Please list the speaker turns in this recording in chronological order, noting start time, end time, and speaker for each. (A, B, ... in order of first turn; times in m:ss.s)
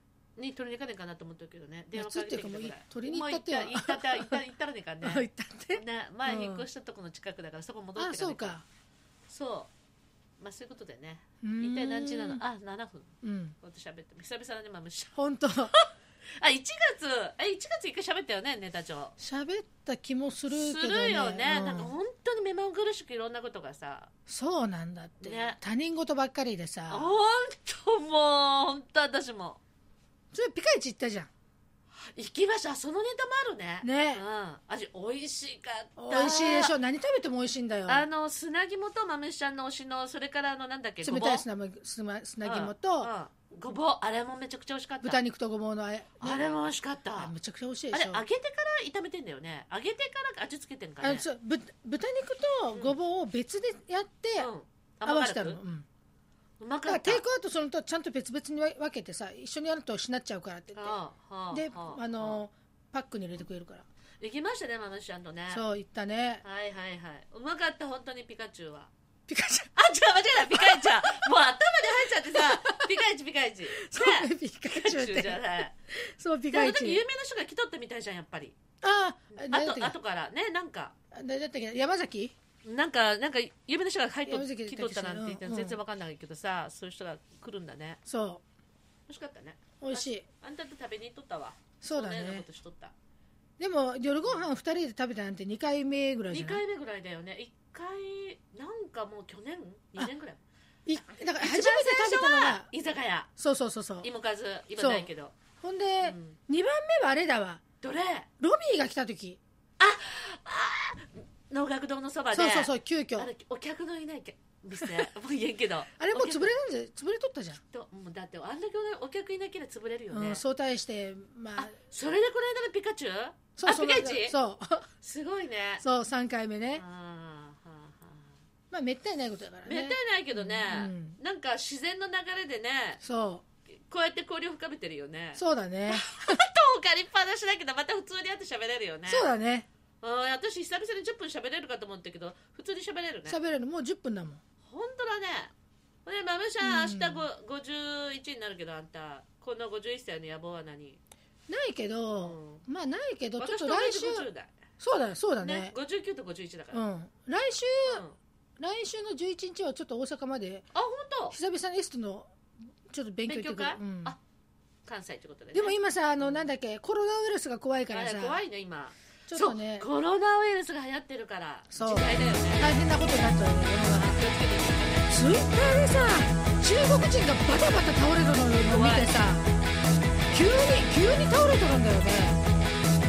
0:00.4-0:08.6 A
0:01.9-0:04.4 B
0:05.0-0:06.6 B
0:08.0-0:08.6 B
0:09.3-0:09.7 A
0:10.4-0:13.1 A
0:11.4-0:12.4 B
0:13.2-0:13.6 B
0:13.6-0:15.2 A
0:15.1-0:15.7 B
0:15.7-0:19.1 A
0:19.2-0:22.0 B
0:20.5-0:24.1 A
0:24.3-0:27.1 B
0:25.2-0:25.6 A
0:26.9-0:29.6 A
0:30.3-0:31.3 B
0:32.1-0:36.7 A
0:33.8-0:34.2 B
0:36.0-0:38.0 B
0:37.9-0:41.4 A
0:41.0-0:43.1 B
0:42.4-0:45.2 A
0:45.0-0:46.4 B
0:46.2-0:47.3 A
0:47.2-0:48.2 B
0:47.9-0:51.2 A
0:51.0-0:54.5 B
0:54.4-0:55.6 A
0:55.0-0:55.8 B
0:56.6-0:57.2 A
0:56.8-1:01.0 B
1:00.7-1:02.4 A
1:01.5-1:03.8 B
1:04.2-1:05.6 A
1:05.5-1:06.4 B
1:06.4-1:08.9 A
1:09.3-1:09.7 B
1:09.7-1:15.7 A
1:10.3-1:11.3 B
1:12.2-1:13.0 B
1:13.7-1:17.0 B
1:16.5-1:18.6 A
1:18.8-1:20.0 B
1:19.3-1:20.9 A
1:21.1-1:22.3 B
1:22.6-1:28.0 A
1:24.3-1:25.8 B
1:28.0-1:28.4 B
1:29.1-1:32.9 A
1:29.8-1:30.2 B
1:31.8-1:32.4 B
1:33.6-1:36.6 B
1:36.3-1:40.4 A
1:40.8-1:42.7 B
1:41.4-1:43.3 A
1:43.4-1:44.1 B
1:44.0-1:45.3 A
1:44.8-1:45.1 B
1:45.6-1:47.6 B
1:46.0-1:46.4 A
1:47.8-1:48.3 A
1:48.4-1:49.4 B
1:49.8-1:56.5 A
1:52.3-1:53.3 B
1:54.8-1:55.1 B
1:56.0-1:57.6 B
1:57.7-2:00.4 A
2:00.1-2:01.7 B
2:01.6-2:04.4 A
2:03.6-2:04.9 B
2:05.0-2:05.8 A
2:05.8-2:06.8 B
2:06.8-2:08.3 A
2:08.7-2:11.2 B
2:09.6-2:13.0 A
2:13.0-2:13.4 B
2:13.8-2:19.3 A
2:15.3-2:16.4 B
2:19.1-2:19.7 B
2:20.0-2:23.4 A
2:23.2-2:24.4 B
2:24.6-2:25.5 A
2:26.0-2:31.0 A
2:26.6-2:27.3 B
2:31.5-2:34.3 B
2:32.2-2:32.6 A
2:33.4-2:34.5 A
2:34.8-2:35.7 B
2:35.4-2:36.8 A
2:36.7-2:38.0 B
2:37.9-2:38.2 A
2:38.6-2:40.6 B
2:40.7-2:41.4 A
2:41.3-2:42.3 B
2:42.9-2:44.1 B
2:43.3-2:44.2 A
2:44.8-2:46.5 A
2:45.5-2:48.4 B
2:47.9-2:52.7 A
2:49.3-2:49.9 B
2:51.7-2:54.2 B
2:53.9-2:55.1 A
2:55.1-2:59.5 B
2:58.6-2:59.2 A
3:00.3-3:02.4 B